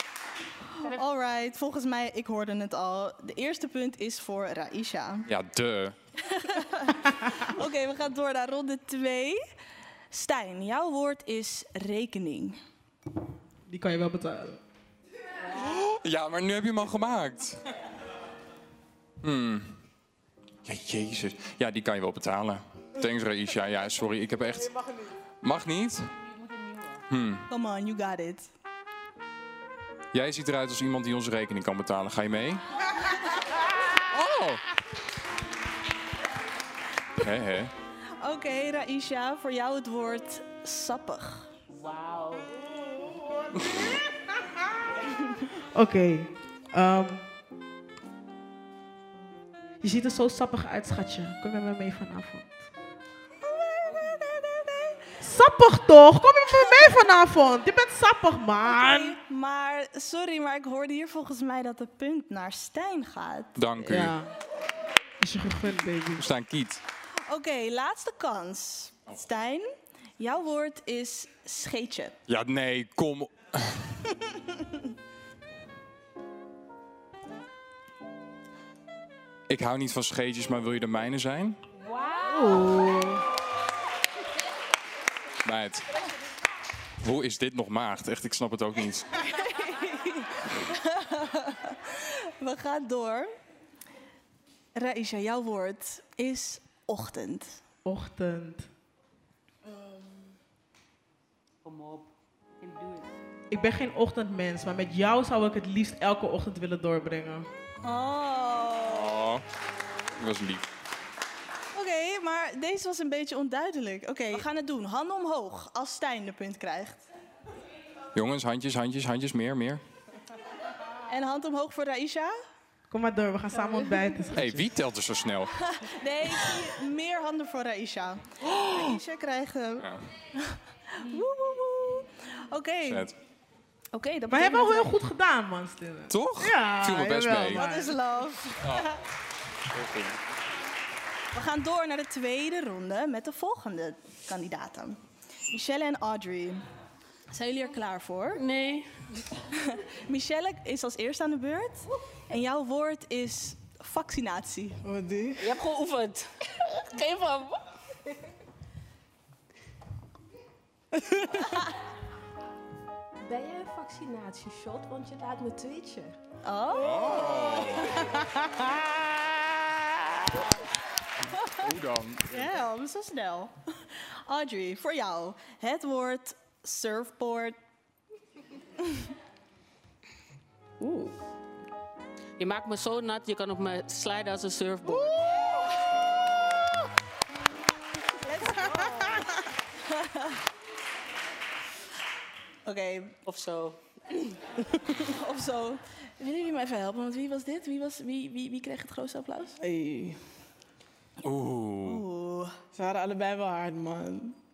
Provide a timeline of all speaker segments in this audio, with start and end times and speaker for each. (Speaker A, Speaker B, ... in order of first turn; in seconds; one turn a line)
Speaker A: 0.7-5.3
Speaker B: 5.3-5.9
Speaker A: 6.2-9.4
Speaker A: 10.1-12.6
Speaker C: 13.7-14.6
Speaker B: 15.5-17.6
Speaker B: 19.2-19.7
Speaker B: 20.6-24.7
Speaker C: 24.5-25.1
Speaker B: 25.4-26.1
Speaker D: 26.2-27.0
Speaker B: 27.1-27.4
Speaker A: 27.5-28.5
Speaker B: 30.1-32.6
Speaker B: 33.9-34.6
Speaker B: 37.2-37.7
Speaker A: 38.2-41.5
Speaker D: 41.7-42.5
Speaker C: 42.6-44.7
Speaker C: 45.7-47.2
Speaker C: 49.8-52.6
Speaker A: 53.4-55.1
Speaker C: 55.2-59.2
Speaker A: 58.6-63.6
Speaker B: 63.6-64.2
Speaker C: 63.8-64.3
Speaker C: 65.2-66.2
Speaker B: 66.2-66.8
Speaker A: 67.3-69.7
Speaker A: 70.2-72.2
Speaker B: 72.3-73.9
Speaker B: 79.5-81.6
Speaker E: 81.9-82.9
Speaker C: 82.2-83.2
Speaker B: 85.4-85.9
Speaker B: 87.0-89.1
Speaker A: 89.3-93.3
Speaker A: 94.7-97.6
Speaker C: 97.8-98.7
Speaker D: 101.6-103.1
Speaker C: 103.5-107.5
Speaker A: 107.8-109.2
Speaker B: 108.9-109.4
Speaker B: 110.2-110.7
Speaker A: 111.7-117.0
Speaker B: 118.1-119.8
Speaker A: 121.1-122.3
Speaker C: 122.9-124.7
Speaker B: 124.3-125.5
Speaker A: 125.6-129.9
Speaker A: 130.4-133.1
Speaker B: 132.8-133.1
Speaker A: 133.9-134.9
Speaker C: 134.3-138.0
Speaker B: 136.1-137.6
Speaker A: 137.5-138.6
Speaker B: 138.6-138.9
Speaker B: 139.7-140.2
Speaker A: 141.3-146.6
Speaker A: 147.3-148.4
Speaker D: 148.3-148.9
Speaker A: 149.5-154.8
Speaker C: 154.8-155.6
Speaker D: 155.4-157.6
Speaker C: 160.9-161.5
Speaker E: 163.2-166.2
Speaker A: 166.4-168.1
Speaker B: 166.7-168.0
Speaker C: 168.2-169.7
Speaker A: 171.3-171.6
Speaker B: 171.4-172.5
Speaker A: 172.3-177.6
Speaker C: 180.8-181.2
Speaker D: 182.4-185.2
Speaker C: 184.8-185.4
Speaker A: 188.2-190.4
Speaker C: 188.4-189.4
Speaker A: 192.7-193.2
Speaker D: 193.2-194.2
Speaker A: 194.9-199.6
Speaker C: 199.6-200.2
Speaker B: 201.2-202.0
Speaker A: 201.8-202.5
Speaker C: 202.7-204.3